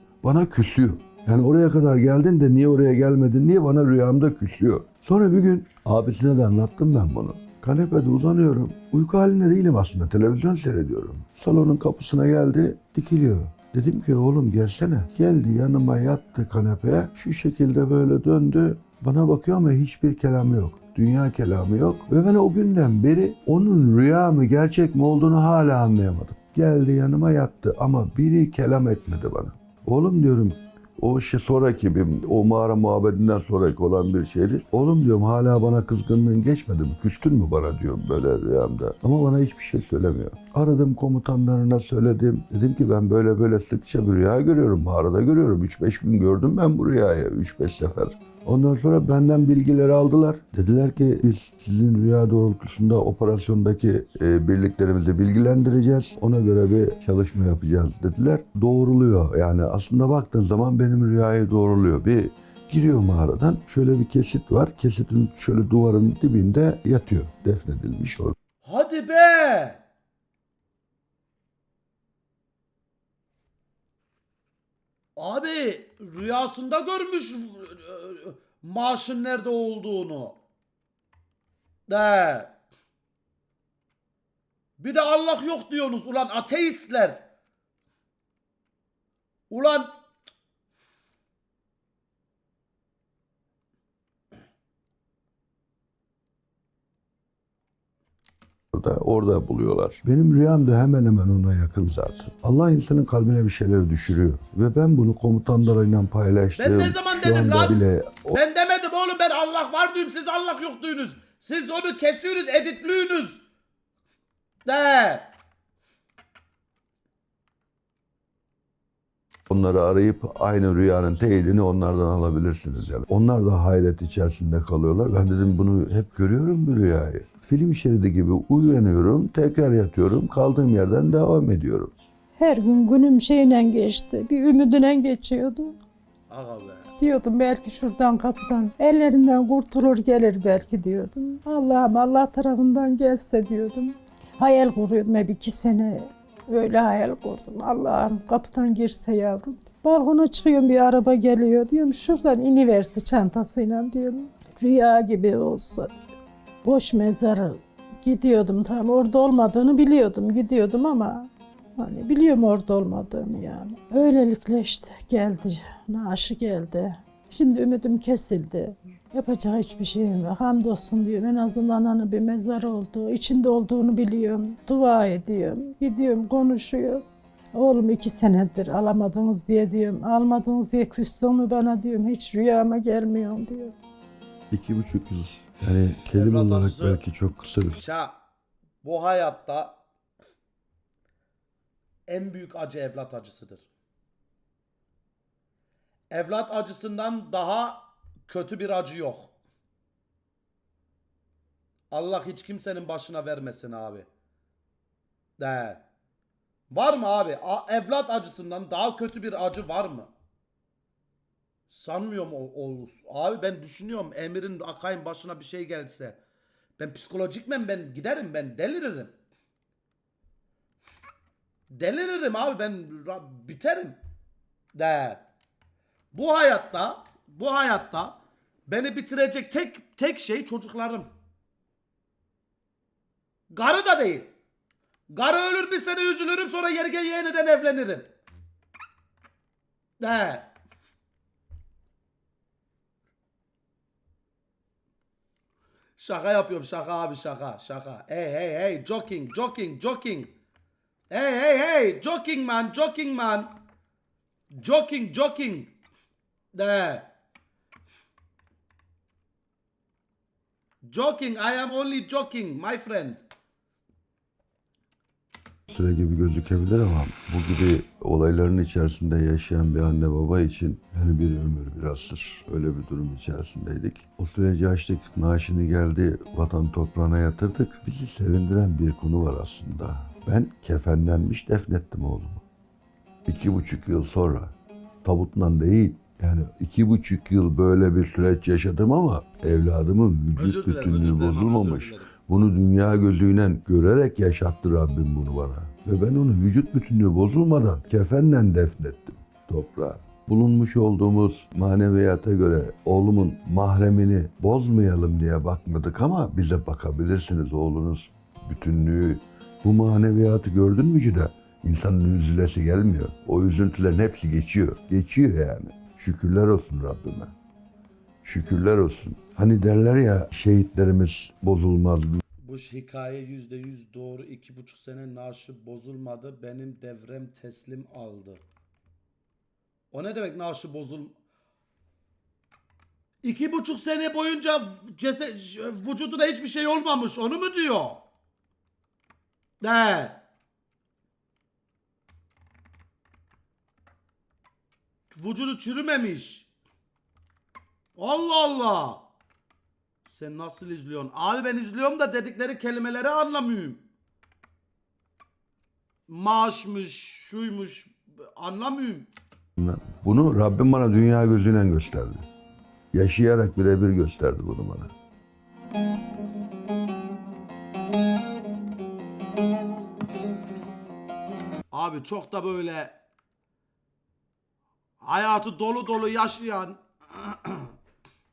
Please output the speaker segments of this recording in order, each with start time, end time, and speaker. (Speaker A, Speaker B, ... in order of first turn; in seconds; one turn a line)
Speaker A: 0.2-68.3
Speaker B: 68.6-69.8
Speaker B: 75.2-80.4
Speaker B: 81.9-82.5
Speaker B: 84.8-87.2
Speaker B: 89.5-89.9
Speaker A: 98.7-108.4
Speaker B: 106.6-107.8
Speaker B: 108.3-113.4
Speaker B: 114.7-115.3
Speaker A: 119.5-131.9
Speaker C: 132.4-135.8
Speaker B: 136.3-136.9
Speaker C: 137.0-155.9
Speaker C: 156.6-183.8
Speaker A: 184.5-187.8
Speaker B: 186.1-187.0
Speaker B: 187.8-188.2
Speaker B: 188.8-189.8
Speaker B: 192.1-193.7
Speaker B: 196.1-199.3
Speaker B: 201.9-204.1
Speaker B: 205.4-205.8
Speaker B: 206.7-210.1
Speaker B: 211.7-216.2
Speaker B: 216.8-219.1
Speaker B: 221.7-224.0
Speaker B: 224.8-225.2
Speaker B: 226.1-231.1
Speaker B: 233.5-234.3
Speaker B: 235.1-238.1
Speaker B: 240.0-240.5
Speaker B: 246.0-250.3
Speaker B: 251.1-253.6
Speaker B: 254.5-255.7
Speaker B: 256.5-257.1
Speaker B: 260.8-263.2
Speaker A: 265.7-282.4
Speaker A: 283.3-317.3
Speaker B: 290.4-292.1
Speaker A: 318.2-322.2
Speaker B: 322.4-328.4
Speaker B: 329.9-331.1
Speaker B: 333.2-338.0
Speaker B: 339.6-340.2
Speaker B: 345.1-346.5
Speaker B: 348.0-349.1
Speaker B: 350.1-353.8
Speaker B: 356.1-359.1
Speaker A: 359.6-362.2
Speaker A: 362.9-364.9
Speaker B: 371.7-373.0
Speaker B: 375.0-377.7